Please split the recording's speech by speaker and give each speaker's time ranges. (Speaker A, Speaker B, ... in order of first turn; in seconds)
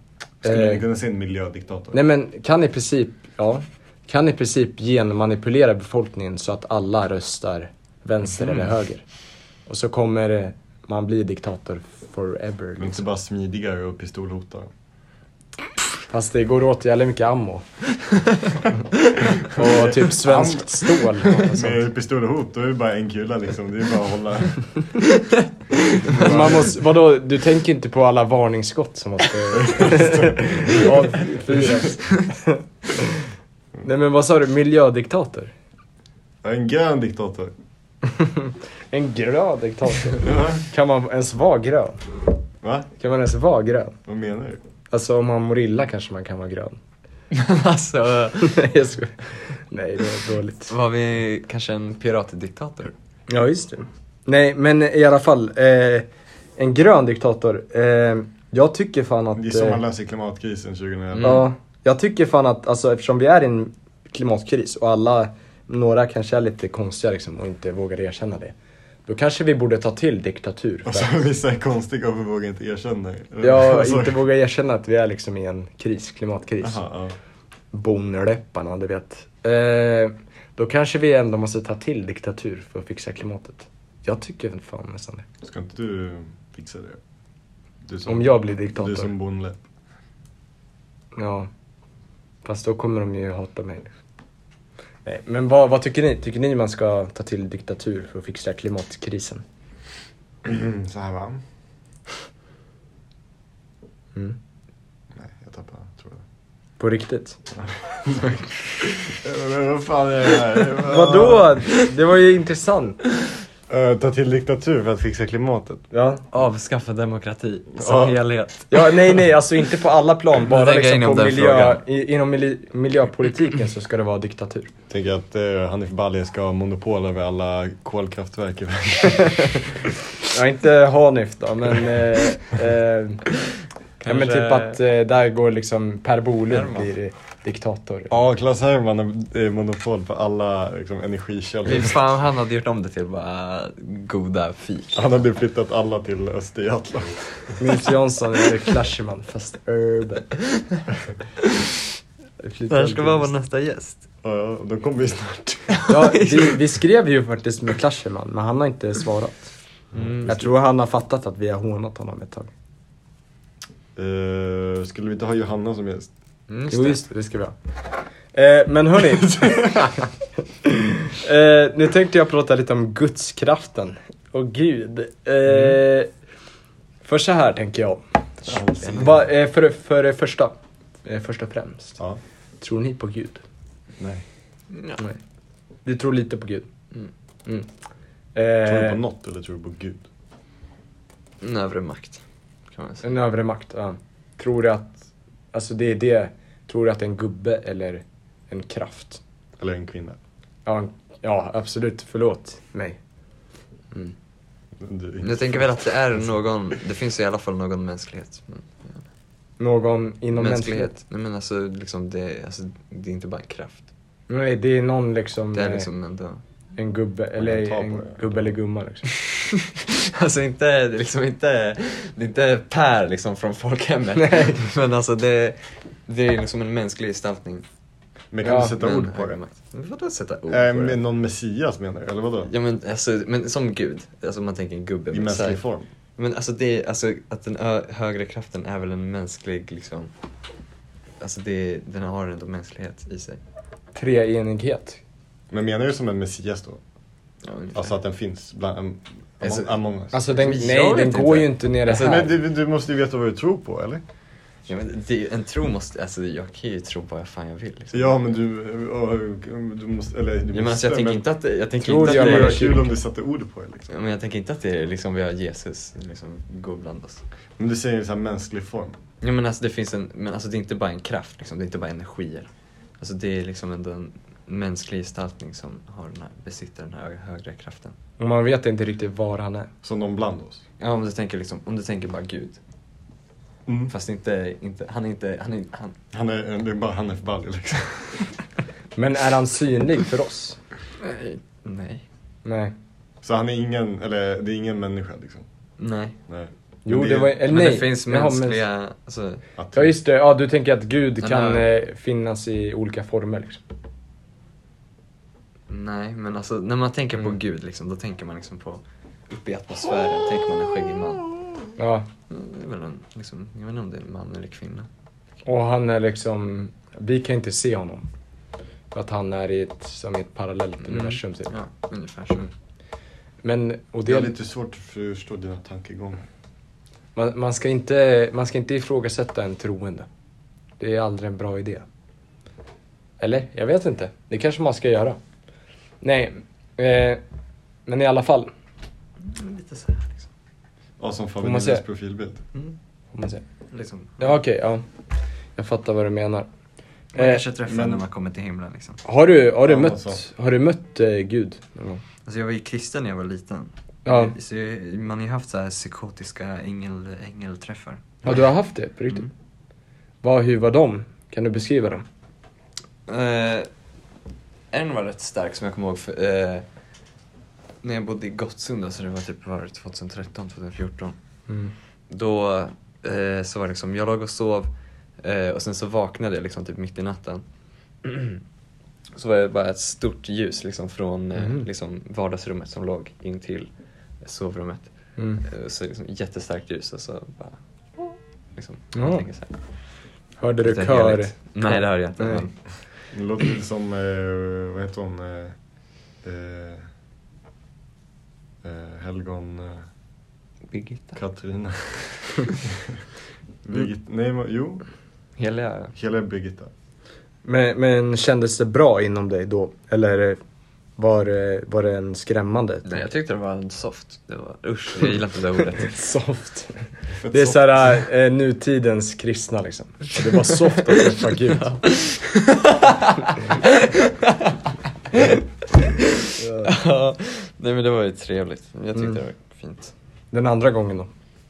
Speaker A: 0.4-0.8, 1.9-9.0, 9.7-13.0, 16.1-17.6, 19.4-21.9, 26.2-33.2, 33.8-35.5, 38.1-42.0, 43.0-44.0, 44.9-46.8, 48.4-50.7, 53.3-59.8, 61.2-68.5, 69.1-71.2, 73.4-76.8, 77.7-85.3, 88.1-89.1, 91.2-91.5, 92.4-93.9, 95.0-99.4, 106.8-107.4, 110.8-113.0, 115.9-116.2, 118.7-124.7, 130.3-133.2, 134.0-138.2, 147.6-150.3, 152.4-153.3, 155.9-159.5, 160.3-162.5, 166.7-167.6, 168.3-170.1, 170.6-176.1, 177.0-178.0, 179.0-182.0, 182.6-183.4, 185.8-186.7, 188.3-189.0, 193.0-195.0, 195.5-199.2, 200.7-203.0, 209.6-210.9, 214.3-215.9, 216.8-219.1, 224.2-224.6, 228.4-228.8, 243.9-245.0, 250.1-252.3, 261.8-262.9, 278.2-279.7, 289.0-290.6, 292.4-292.8, 296.9-298.6, 299.7-303.6, 311.8-312.1, 315.4-318.1, 318.9-321.5, 323.4-324.3, 327.1-330.1, 330.8-331.9, 333.2-335.2, 336.0-337.2, 337.9-338.5, 341.4-341.8, 343.1-343.4, 344.2-344.9, 345.6-346.5, 347.1-347.4, 349.1-352.0, 354.1-354.4, 358.2-359.3, 360.2-362.1, 371.5-371.7, 381.4-381.7, 385.2-385.4, 388.9-389.3, 390.4-392.5, 407.4-410.4, 411.0-413.1, 415.8-421.8, 426.4-426.7, 430.3-431.1
Speaker B: 0.4-2.0, 12.8-14.7, 19.4-25.0, 26.0-26.7, 29.5-31.9, 36.4-37.5, 40.2-40.6, 42.6-42.9, 44.1-44.6, 59.4-61.5, 70.9-74.2, 76.6-77.2, 85.4-87.0, 87.8-89.6, 100.4-101.4, 105.1-106.2, 107.6-108.4, 109.1-111.5, 113.7-115.8, 117.8-118.2, 124.9-129.9, 138.1-142.0, 144.9-147.6, 154.2-155.8, 159.9-160.5, 164.0-166.1, 178.5-179.2, 184.0-184.2, 188.7-190.1, 199.6-200.2, 204.8-205.9, 217.4-218.5, 228.3-229.4, 230.5-232.5, 235.1-235.9, 245.5-246.8, 247.8-250.2, 251.9-254.0, 257.9-261.2, 261.9-263.9, 267.6-269.0, 279.8-280.6, 283.7-283.9, 286.1-288.3, 293.2-295.4, 296.3-297.4, 299.6-299.9, 324.1-326.2, 341.0-342.4, 347.7-348.0, 349.6-350.2, 393.1-395.6, 396.2-396.9, 398.6-399.9, 401.1-403.0, 403.6-404.9, 405.9-406.7, 417.2-417.6
Speaker C: 26.0-26.5, 47.3-48.7, 50.7-52.9, 61.1-61.5, 116.3-119.2, 120.4-121.8, 134.0-134.8, 136.5-136.9, 141.7-145.0, 152.7-154.0, 155.7-156.6, 159.9-160.3, 166.5-167.0, 178.5-179.1, 184.7-185.0, 191.4-192.2, 192.7-193.0, 205.2-209.0, 210.3-213.9, 215.5-216.4, 219.1-227.7, 228.6-231.0, 232.5-235.6, 236.2-240.1, 241.2-243.4, 247.4-248.0, 249.4-252.3, 254.7-258.1, 260.5-262.9, 263.9-267.2, 269.2-277.9, 280.8-282.6, 283.9-286.0, 291.0-292.0, 295.8-296.2, 297.4-299.4, 301.2-301.7, 305.7-311.3, 312.3-314.9, 320.8-322.5, 339.2-340.3, 343.7-344.4, 347.1-349.0, 352.2-358.2, 363.1-363.7, 364.7-366.7, 367.8-371.2, 372.1-374.7, 375.2-377.4, 378.0-378.4, 379.1-383.7, 384.2-384.9, 385.4-389.5, 390.6-392.6, 400.7-401.2, 405.4-405.9, 412.9-415.9, 421.5-424.6, 425.1-429.9